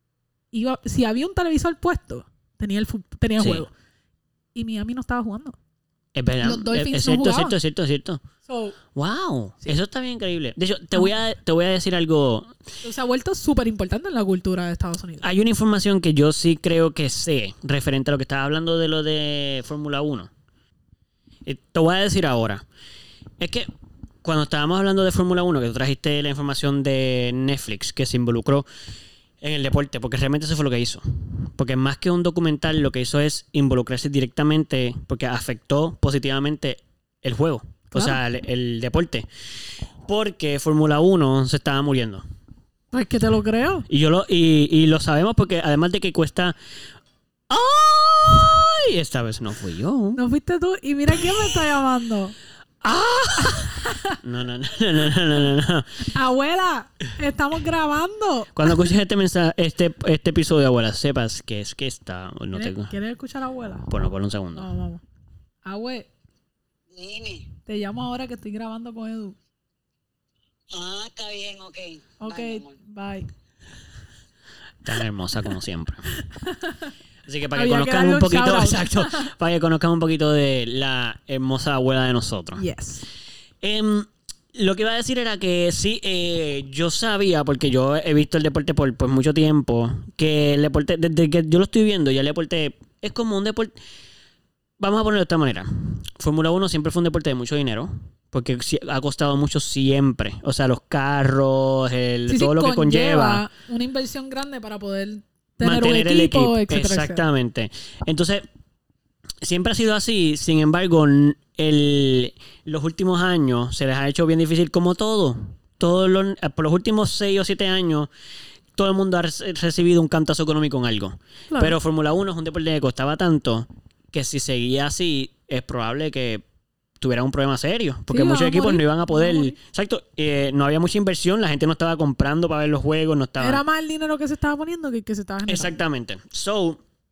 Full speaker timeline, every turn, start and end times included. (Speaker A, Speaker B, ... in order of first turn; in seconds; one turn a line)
Speaker A: 0.5-3.7
Speaker B: 3.4-3.6
Speaker A: 4.5-5.6
Speaker B: 6.1-8.2
Speaker A: 6.4-7.6
Speaker A: 8.4-8.8
Speaker B: 8.9-12.5
Speaker A: 12.8-15.2
Speaker B: 15.2-20.3
Speaker B: 21.4-22.6
Speaker B: 23.4-23.7
Speaker B: 24.2-28.6
Speaker B: 29.4-39.3
Speaker A: 37.9-38.2
Speaker B: 40.0-42.2
Speaker A: 42.9-43.9
Speaker B: 43.9-46.5
Speaker B: 47.5-50.2
Speaker A: 50.1-52.4
Speaker B: 52.8-56.1
Speaker A: 53.4-54.2
Speaker A: 56.0-58.7
Speaker B: 58.5-62.9
Speaker A: 62.5-63.9
Speaker B: 63.9-64.7
Speaker A: 64.5-65.0
Speaker A: 65.6-66.1
Speaker C: 66.9-67.5
Speaker A: 67.7-69.4
Speaker C: 70.7-72.7
Speaker A: 72.2-73.3
Speaker B: 74.8-76.0
Speaker A: 76.3-76.9
Speaker B: 77.3-82.7
Speaker A: 77.5-79.3
Speaker A: 82.6-83.0
Speaker B: 83.6-93.7
Speaker B: 94.8-103.4
Speaker A: 102.3-107.2
Speaker B: 105.6-108.5
Speaker B: 109.4-118.1
Speaker B: 118.7-126.4
Speaker A: 121.5-121.8
Speaker B: 127.0-133.6
Speaker A: 128.1-129.6
Speaker A: 133.4-135.8
Speaker B: 135.5-136.8